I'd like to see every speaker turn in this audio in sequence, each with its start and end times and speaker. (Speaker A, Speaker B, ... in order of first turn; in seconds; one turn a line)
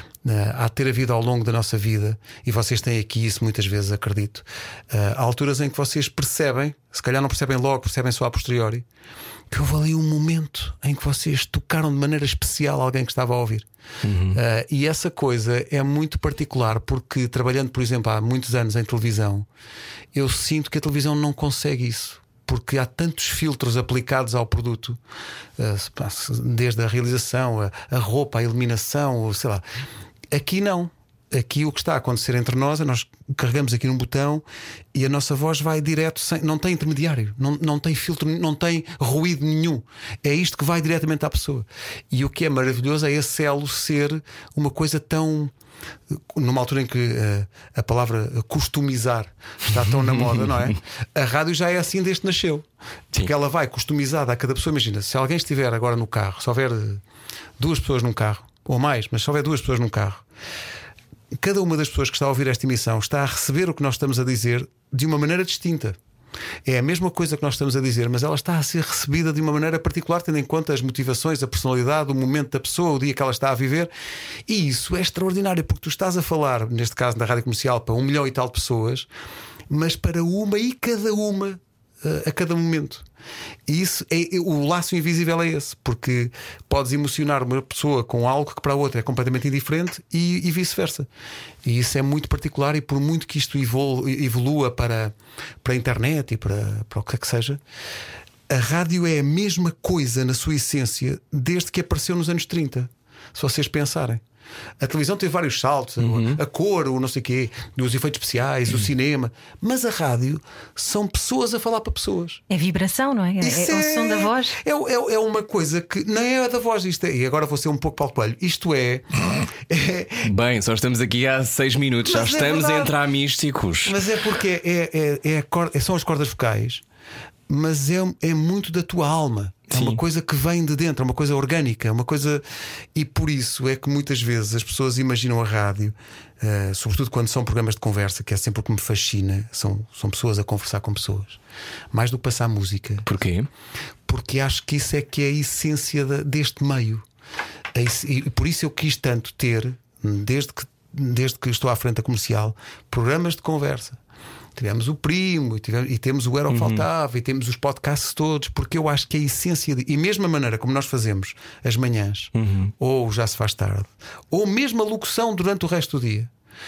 Speaker A: 0.2-8.8
Speaker A: 9.5-13.7
Speaker B: 14.0-14.4
Speaker A: 14.3-19.5
Speaker A: 20.1-25.0
Speaker A: 25.6-29.6
Speaker A: 30.3-45.5
Speaker A: 46.1-57.0
Speaker A: 57.6-60.2
Speaker A: 61.4-66.0
Speaker A: 66.6-73.9
Speaker A: 74.5-79.1
Speaker A: 79.7-83.0
Speaker A: 83.7-91.1
Speaker A: 91.6-97.6
Speaker A: 98.5-104.2
Speaker A: 104.8-112.4
Speaker B: 106.0-106.4
Speaker C: 112.5-114.6
Speaker A: 113.4-120.3
Speaker B: 120.2-124.0
Speaker A: 122.0-122.9
Speaker A: 123.8-126.8
Speaker A: 127.5-141.4
Speaker B: 129.7-130.0
Speaker A: 141.9-143.1
Speaker B: 143.1-143.5
Speaker A: 144.1-147.0
Speaker A: 147.7-154.0
Speaker A: 154.6-166.3
Speaker B: 156.5-156.8
Speaker B: 162.3-162.7